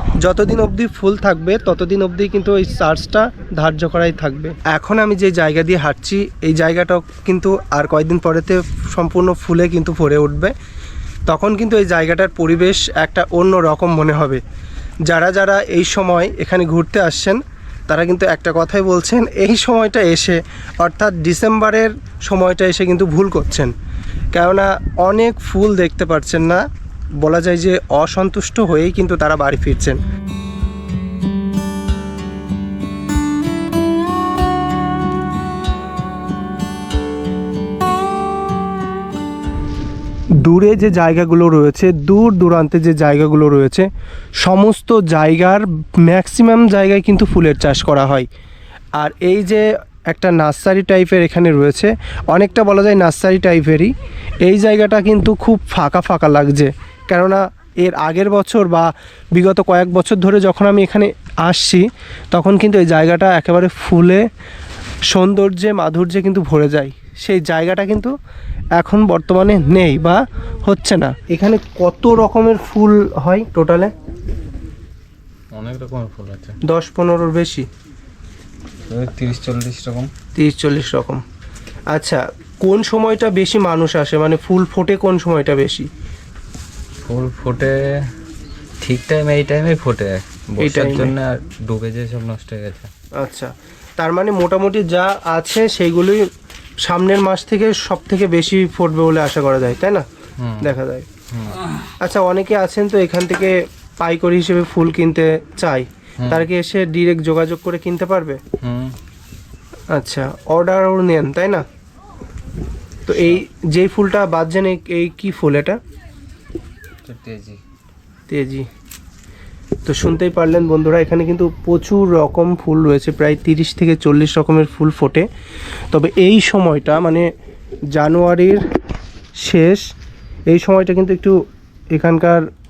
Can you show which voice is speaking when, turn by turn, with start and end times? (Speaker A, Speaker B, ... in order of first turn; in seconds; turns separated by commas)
Speaker A: 0.2-10.5, Speaker A: 11.3-14.4, Speaker A: 15.1-23.7, Speaker A: 24.3-26.6, Speaker A: 27.2-30.0, Speaker A: 40.4-43.9, Speaker A: 44.4-48.3, Speaker A: 49.0-53.9, Speaker A: 54.4-64.2, Speaker A: 65.1-68.1, Speaker A: 68.8-73.9, Speaker B: 75.5-76.6, Speaker A: 76.7-77.7, Speaker B: 78.9-80.1, Speaker A: 80.3-81.2, Speaker A: 81.9-85.9, Speaker B: 87.0-88.0, Speaker B: 88.8-92.9, Speaker A: 90.6-91.2, Speaker A: 93.2-96.2, Speaker A: 96.8-100.0, Speaker B: 100.4-100.8, Speaker A: 100.6-101.1, Speaker B: 101.3-101.6, Speaker A: 102.0-108.4, Speaker B: 106.2-106.5, Speaker B: 108.6-109.0, Speaker A: 109.9-111.6, Speaker A: 113.1-115.8, Speaker B: 117.1-117.6, Speaker A: 118.3-118.7, Speaker A: 119.8-125.3, Speaker A: 125.9-127.3, Speaker A: 127.9-128.6, Speaker A: 129.4-129.8, Speaker A: 130.5-131.3, Speaker A: 131.9-132.4